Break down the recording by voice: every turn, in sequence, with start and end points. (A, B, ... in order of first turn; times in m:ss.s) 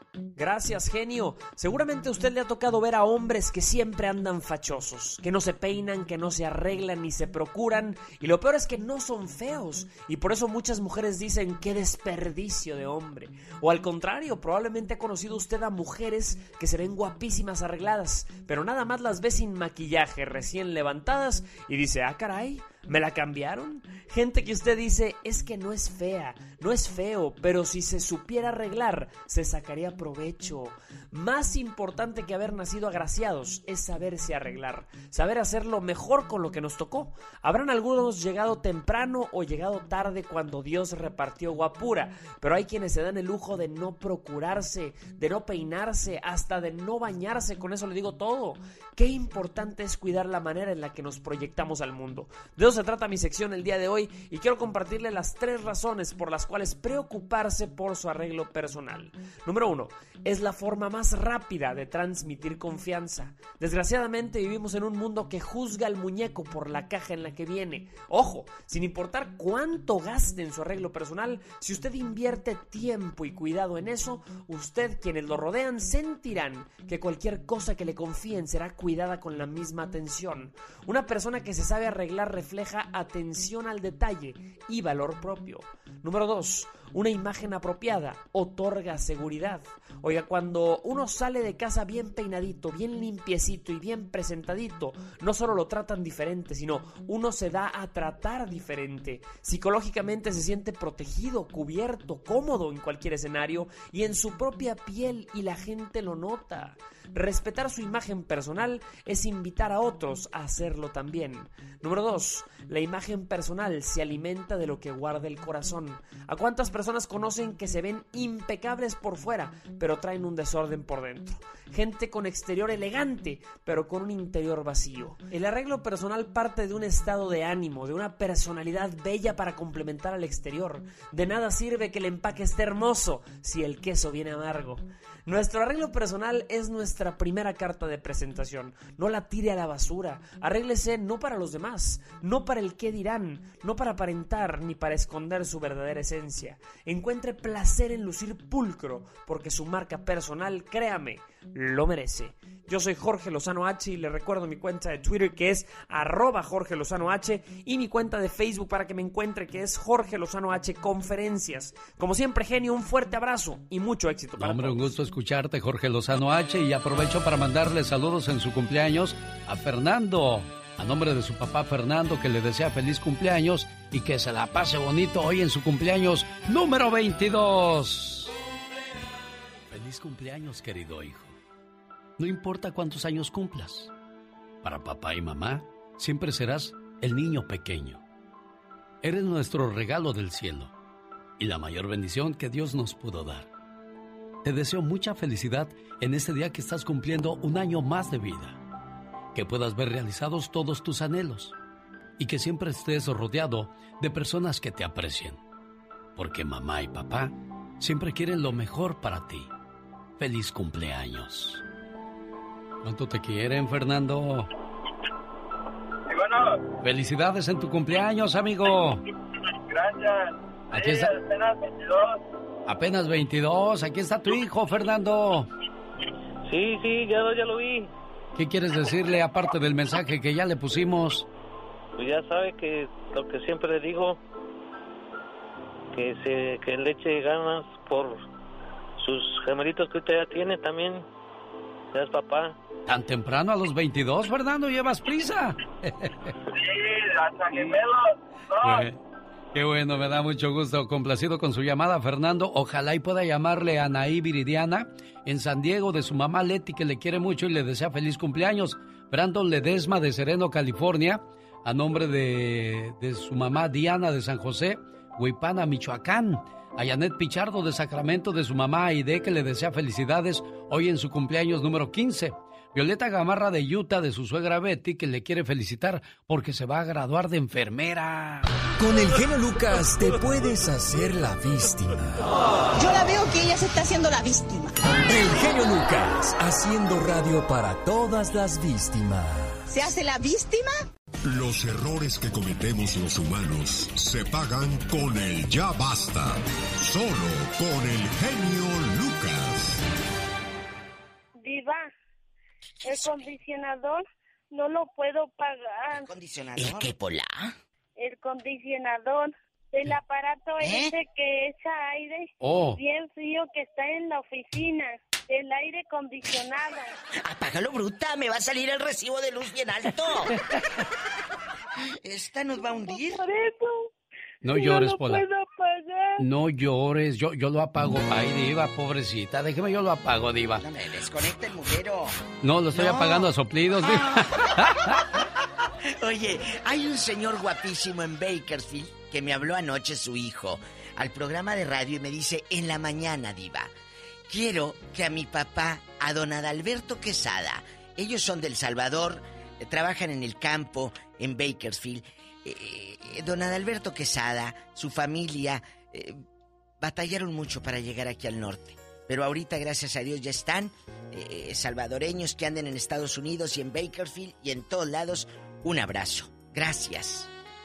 0:00.4-2:44.8 A
2:44.4-2:58.3 B
2:59.7-3:01.4 B
3:02.2-3:03.9 B
3:04.6-3:08.0 B
3:09.0-3:10.7 B
3:11.4-3:13.5 B
3:14.4-3:18.6 B
3:19.4-3:21.6 B
3:22.2-3:25.4 B
3:26.2-3:29.5 B
3:30.2-3:31.6 B
3:32.8-3:34.5 B
3:36.8-3:39.0 B
3:40.7-3:41.1 B
3:42.7-3:45.5 B
3:46.5-3:47.9 C
3:48.4-3:51.3 B
3:52.0-3:54.2 C
3:56.0-3:58.2 C
3:59.0-4:01.0 C
4:01.9-4:02.5 C
4:02.9-4:06.3 B
4:08.6-4:09.0 B
4:09.5-4:38.5 B
4:38.8-4:42.2 D
4:42.8-4:44.7 E
4:45.1-4:49.6 D
4:49.7-4:50.8 E
4:51.2-4:59.6 F
5:01.4-5:01.9 G
5:02.8-5:03.3 H
5:02.9-5:04.0 G
5:04.5-5:06.1 G
5:06.0-5:07.5 H
5:08.0-5:16.9 G
5:10.6-5:10.9 H
5:12.4-5:12.8 B
5:17.2-5:20.3 H
5:22.0-5:23.2 H
5:22.9-5:23.9 G
5:24.4-5:25.2 B
5:24.5-5:26.2 G
5:26.2-5:30.6 B
5:30.6-5:32.2 H
5:32.4-5:35.0 B
5:32.7-5:34.2 H
5:36.0-5:43.7 H
5:44.3-5:56.2 H
5:56.8-6:07.3 H